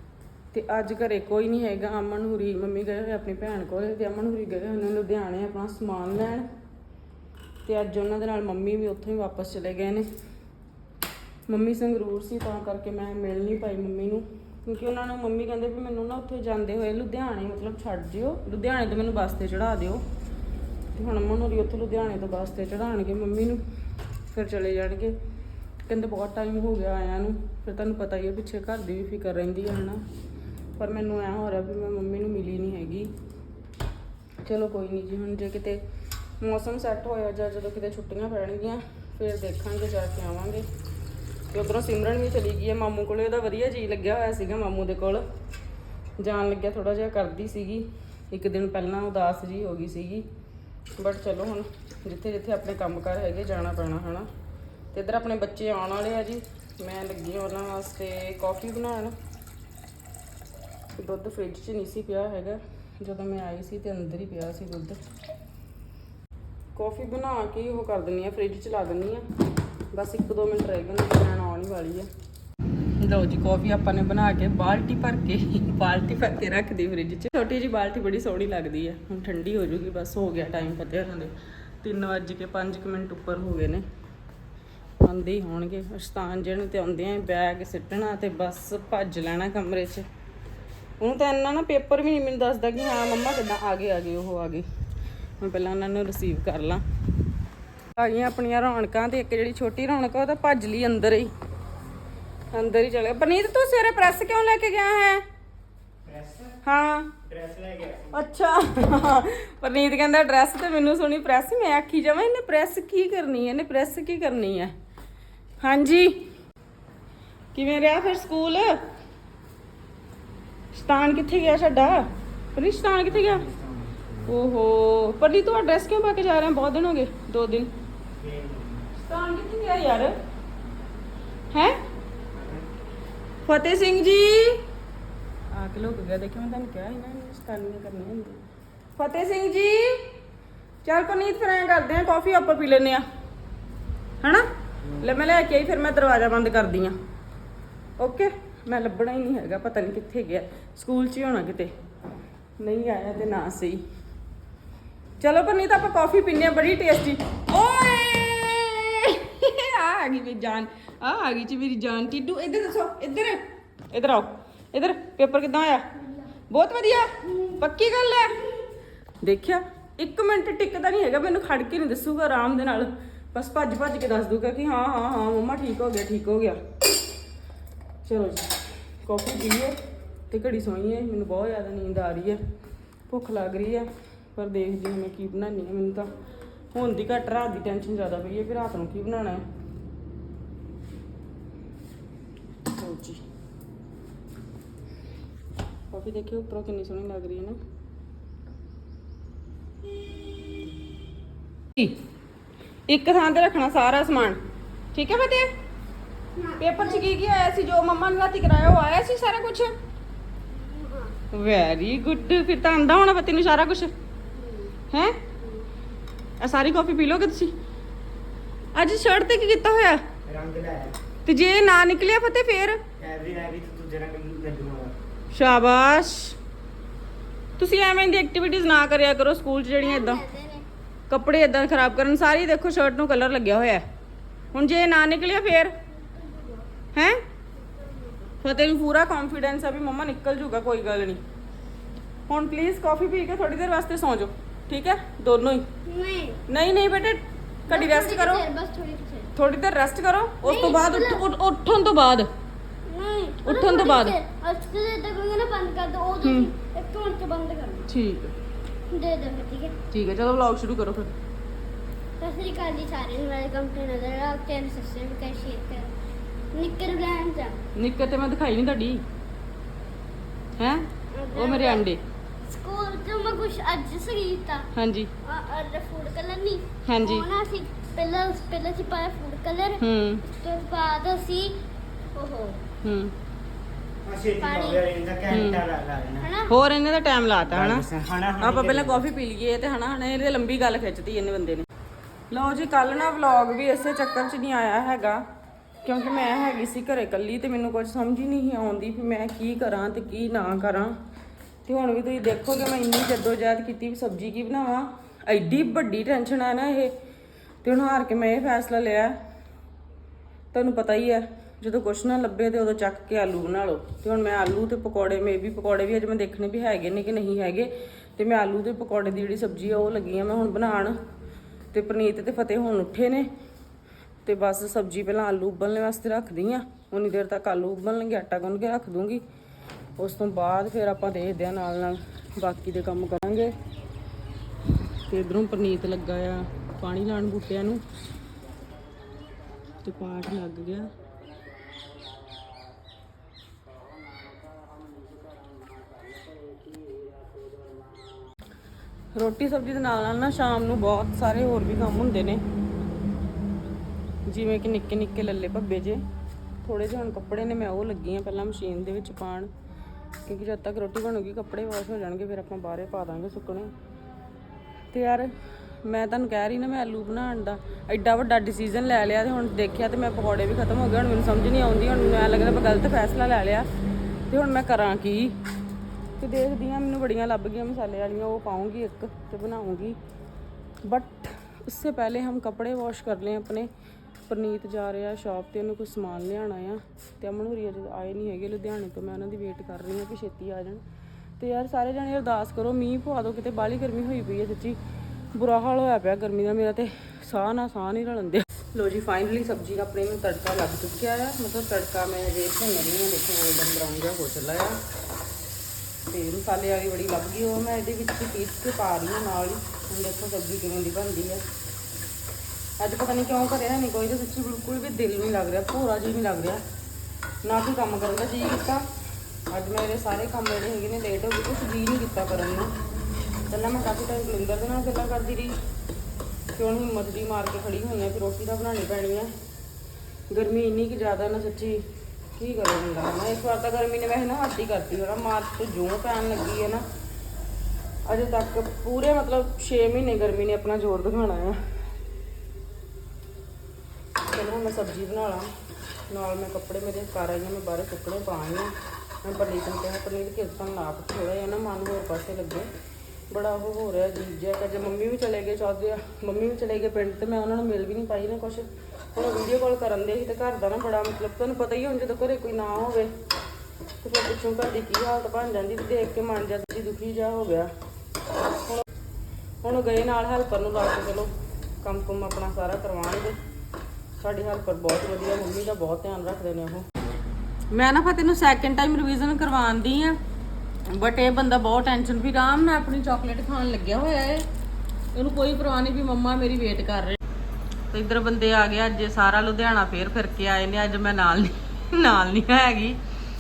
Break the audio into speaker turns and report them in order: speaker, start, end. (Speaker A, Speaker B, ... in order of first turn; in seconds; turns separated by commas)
Speaker A: 0.5-6.5, Speaker A: 7.7-10.1, Speaker A: 11.5-20.0, Speaker A: 20.9-23.6, Speaker A: 24.3-25.1, Speaker A: 25.9-30.0, Speaker A: 30.8-33.1, Speaker A: 34.4-35.8, Speaker A: 36.4-40.6, Speaker A: 41.5-45.2, Speaker A: 46.2-50.3, Speaker A: 51.0-54.3, Speaker A: 54.9-59.1, Speaker A: 61.0-65.0, Speaker A: 66.8-69.2, Speaker A: 69.9-72.1, Speaker A: 73.0-83.8, Speaker A: 85.0-90.1, Speaker A: 91.0-94.7, Speaker A: 95.4-96.8, Speaker A: 97.9-101.3, Speaker A: 102.5-105.2, Speaker B: 106.1-106.6, Speaker A: 106.6-107.2, Speaker B: 107.2-108.1, Speaker A: 108.1-114.7, Speaker A: 115.6-116.2, Speaker A: 117.5-118.8, Speaker A: 120.8-123.5, Speaker B: 123.4-124.1, Speaker A: 124.2-127.7, Speaker B: 128.2-128.8, Speaker A: 129.0-130.1, Speaker A: 131.5-131.8, Speaker A: 133.5-134.6, Speaker A: 135.5-138.4, Speaker A: 139.0-140.1, Speaker A: 140.8-143.0, Speaker A: 144.2-146.9, Speaker A: 148.0-151.7, Speaker A: 152.6-153.8, Speaker A: 155.2-165.8, Speaker A: 166.5-168.4, Speaker A: 169.2-176.6, Speaker A: 178.1-179.8, Speaker A: 180.3-182.4, Speaker A: 183.1-186.1, Speaker A: 186.7-189.4, Speaker A: 192.7-193.2, Speaker A: 195.9-197.6, Speaker A: 202.9-204.4, Speaker A: 204.9-205.5, Speaker C: 206.4-207.0, Speaker A: 206.6-209.7, Speaker C: 210.8-211.1, Speaker A: 211.3-213.9, Speaker C: 214.4-214.8, Speaker A: 214.9-215.2, Speaker A: 216.4-217.5, Speaker A: 218.7-220.0, Speaker B: 220.3-221.0, Speaker A: 221.2-222.8, Speaker B: 223.0-225.0, Speaker A: 225.3-226.4, Speaker A: 227.6-230.3, Speaker C: 229.8-230.7, Speaker A: 231.1-233.8, Speaker A: 234.5-235.7, Speaker A: 236.9-237.2, Speaker A: 238.4-241.2, Speaker A: 242.3-245.7, Speaker C: 245.9-246.4, Speaker A: 246.5-248.4, Speaker C: 247.7-249.3, Speaker A: 249.3-252.3, Speaker C: 250.4-251.2, Speaker C: 252.9-257.9, Speaker A: 253.4-254.2, Speaker A: 256.2-256.5, Speaker A: 257.9-258.3, Speaker C: 258.9-259.8, Speaker A: 259.9-261.1, Speaker C: 262.2-265.9, Speaker C: 266.5-267.6, Speaker A: 267.8-269.0, Speaker A: 270.6-272.0, Speaker C: 271.1-271.9, Speaker C: 272.4-274.7, Speaker A: 274.7-275.1, Speaker C: 275.2-281.6, Speaker A: 276.9-277.3, Speaker A: 279.8-280.2, Speaker C: 282.1-282.6, Speaker A: 282.8-283.1, Speaker B: 284.0-286.3, Speaker C: 284.4-284.9, Speaker A: 285.3-285.6, Speaker C: 286.2-286.5, Speaker A: 286.5-287.9, Speaker B: 287.5-289.1, Speaker A: 288.4-291.7, Speaker A: 292.3-295.2, Speaker A: 295.8-300.9, Speaker A: 301.6-306.9, Speaker A: 307.6-309.1, Speaker A: 310.5-321.0, Speaker A: 321.7-323.3, Speaker A: 324.2-329.2, Speaker A: 330.0-333.5, Speaker A: 335.1-337.8, Speaker A: 339.8-340.9, Speaker A: 349.1-352.4, Speaker A: 354.3-356.0, Speaker A: 356.6-359.5, Speaker A: 360.2-363.7, Speaker A: 364.9-365.3, Speaker A: 365.9-373.7, Speaker A: 374.3-375.4, Speaker A: 376.2-380.0, Speaker A: 380.8-383.7, Speaker A: 384.3-390.8, Speaker A: 391.4-394.8, Speaker A: 395.4-404.8, Speaker A: 406.1-411.4, Speaker A: 412.8-416.6, Speaker A: 417.4-418.9, Speaker A: 419.5-422.7, Speaker A: 423.5-425.6, Speaker A: 426.6-429.3, Speaker A: 430.3-431.9, Speaker A: 432.4-436.9, Speaker A: 438.1-441.6, Speaker A: 444.3-445.5, Speaker A: 446.1-452.7, Speaker A: 453.3-463.1, Speaker A: 464.0-467.7, Speaker A: 469.6-471.3, Speaker A: 471.8-473.4, Speaker A: 474.2-476.9, Speaker A: 477.7-480.2, Speaker A: 480.9-484.5, Speaker A: 485.1-487.2, Speaker A: 487.9-493.0